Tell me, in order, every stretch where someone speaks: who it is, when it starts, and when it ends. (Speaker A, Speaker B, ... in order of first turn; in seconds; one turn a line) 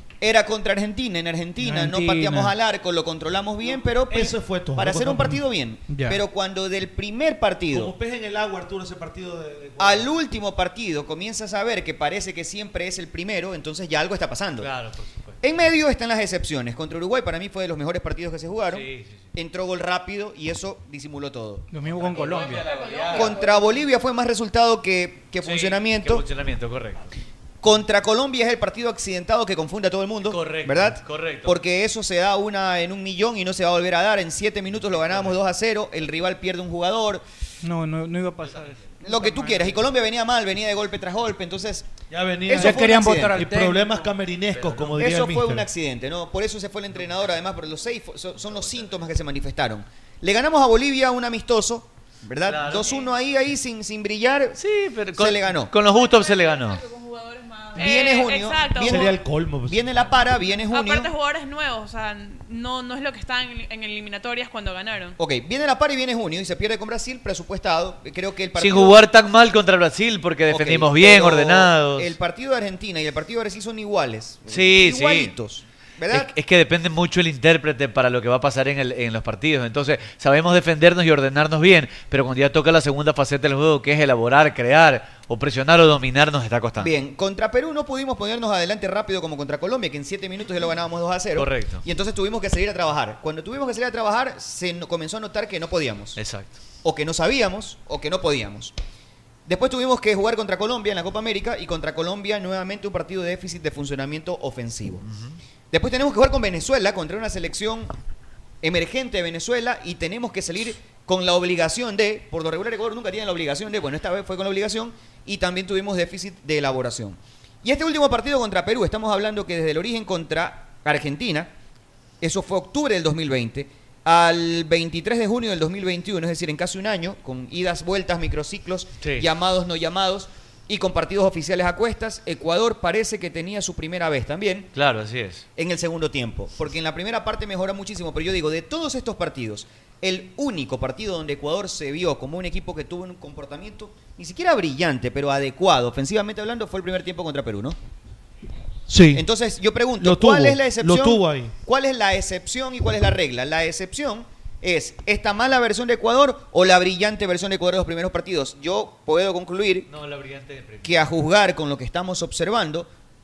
Speaker A: 0.2-7.9
Speaker B: 1.6-2.5
Speaker C: 4.1-5.4
Speaker B: 5.9-6.2
Speaker C: 7.7-10.1
Speaker A: 9.8-14.7
Speaker D: 14.6-15.4
Speaker A: 15.4-21.7
Speaker D: 18.7-19.2
Speaker B: 21.7-22.6
Speaker D: 22.0-23.4
Speaker E: 22.2-23.9
Speaker A: 23.1-26.2
Speaker D: 25.4-27.1
Speaker A: 27.6-37.2
Speaker D: 30.2-31.6
Speaker D: 34.7-35.4
Speaker B: 37.6-39.5
Speaker A: 39.0-41.9
Speaker C: 42.1-45.7
Speaker A: 42.5-43.4
Speaker B: 42.5-44.0
Speaker D: 44.5-45.0
Speaker A: 45.0-54.6
Speaker D: 48.4-49.0
Speaker D: 52.4-53.1
Speaker D: 54.6-56.8
Speaker A: 55.2-55.8
Speaker E: 55.9-58.6
Speaker F: 57.8-59.1
Speaker A: 57.8-61.1
Speaker C: 58.8-60.1
Speaker F: 60.7-65.2
Speaker A: 65.2-69.0
Speaker D: 68.6-72.2
Speaker A: 70.5-76.3
Speaker D: 74.5-75.3
Speaker D: 76.1-86.9
Speaker A: 86.8-96.2
Speaker D: 91.4-91.8
Speaker D: 96.2-96.5
Speaker A: 96.8-98.7
Speaker A: 99.5-105.0
Speaker D: 105.1-105.4
Speaker A: 105.7-107.9
Speaker A: 108.6-121.5
Speaker A: 122.2-134.7
Speaker D: 129.0-129.3
Speaker D: 134.8-135.4
Speaker A: 135.6-147.8
Speaker C: 148.9-149.3
Speaker A: 149.1-159.9
Speaker C: 150.0-151.5
Speaker D: 159.9-161.1
Speaker A: 160.8-162.9